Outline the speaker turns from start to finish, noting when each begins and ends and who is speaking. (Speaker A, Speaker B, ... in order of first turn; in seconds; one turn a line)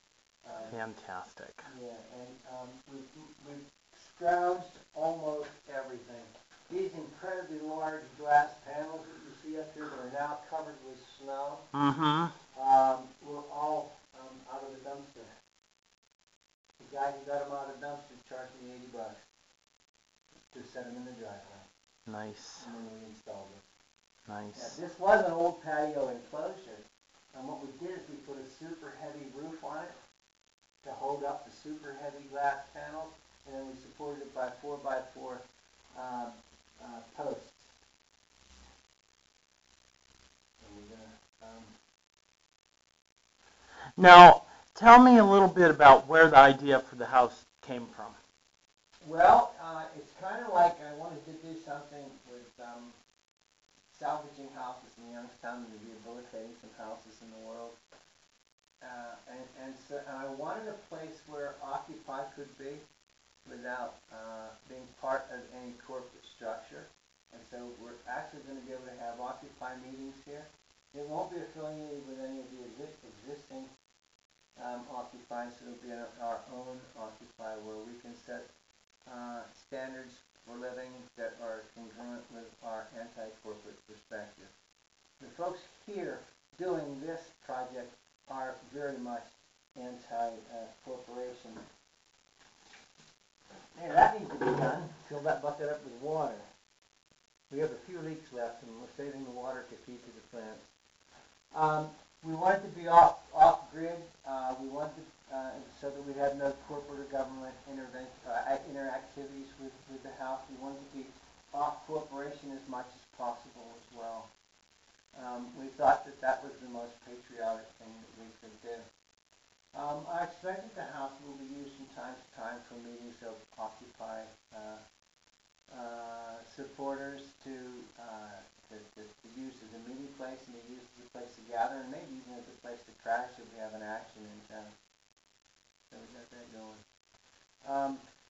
Speaker A: 0.4-0.8
Speaker B: 0.7-1.7
Speaker A: 1.6-11.7
Speaker B: 11.7-12.3
Speaker A: 12.5-15.3
Speaker A: 16.8-19.2
Speaker A: 20.5-21.7
Speaker B: 22.1-22.7
Speaker A: 22.6-23.6
Speaker B: 24.3-24.8
Speaker A: 24.5-29.9
Speaker A: 30.8-35.4
Speaker A: 35.9-37.7
Speaker A: 40.6-41.7
Speaker B: 44.0-48.2
Speaker A: 49.0-53.0
Speaker A: 53.9-57.8
Speaker A: 58.8-62.8
Speaker A: 63.4-73.7
Speaker A: 74.5-78.5
Speaker A: 79.0-84.5
Speaker A: 85.2-91.6
Speaker A: 93.7-96.5
Speaker A: 97.5-100.7
Speaker A: 101.5-114.3
Speaker A: 115.1-118.8
Speaker A: 119.7-124.8
Speaker A: 125.7-134.7
Speaker A: 135.9-136.8
Speaker A: 137.6-138.0